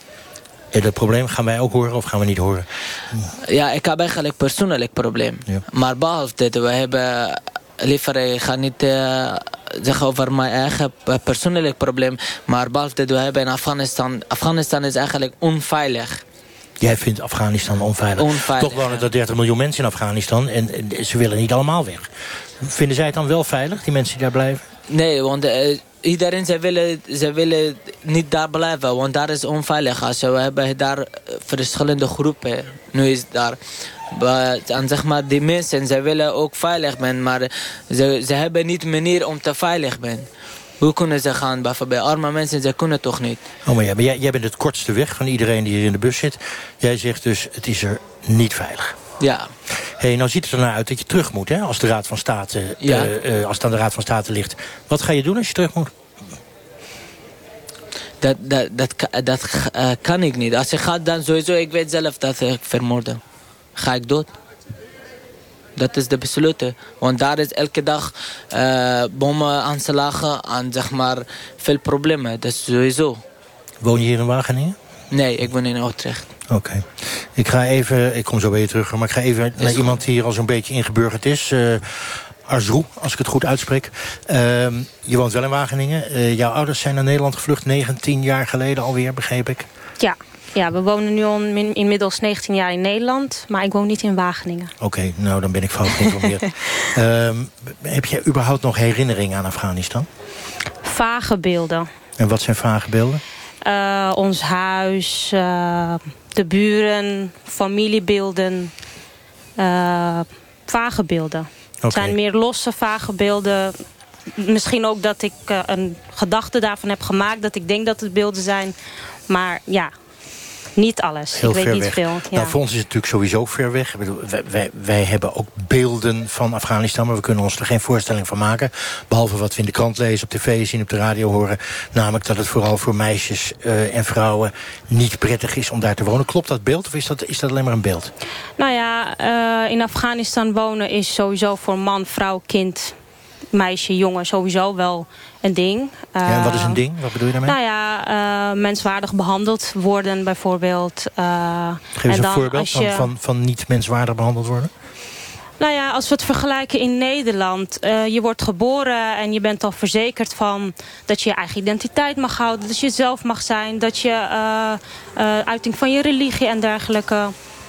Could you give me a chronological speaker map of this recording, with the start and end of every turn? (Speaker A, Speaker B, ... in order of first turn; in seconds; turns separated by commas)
Speaker A: 0.7-3.3, Speaker B: 3.5-16.2, Speaker A: 16.8-22.1, Speaker B: 18.2-19.0, Speaker A: 22.6-24.6, Speaker B: 24.9-33.6, Speaker B: 34.1-40.3, Speaker B: 40.8-43.4, Speaker A: 43.6-48.9, Speaker B: 49.2-49.5, Speaker A: 50.0-55.9, Speaker B: 52.8-53.1, Speaker B: 58.2-63.2, Speaker B: 63.8-64.3, Speaker B: 65.8-73.2, Speaker A: 73.8-74.8, Speaker B: 75.1-76.2, Speaker A: 76.5-89.7, Speaker B: 79.6-80.0, Speaker C: 90.0-94.7, Speaker A: 94.8-100.1, Speaker C: 100.8-101.9, Speaker A: 102.2-103.2, Speaker C: 103.6-108.7, Speaker C: 109.6-113.7, Speaker A: 111.8-112.2, Speaker C: 114.4-118.7, Speaker C: 119.3-119.9, Speaker C: 120.8-122.5, Speaker A: 121.3-138.1, Speaker C: 138.6-142.9, Speaker C: 143.5-146.8, Speaker A: 146.2-147.6, Speaker C: 147.4-153.1, Speaker A: 151.9-154.7, Speaker C: 155.6-167.3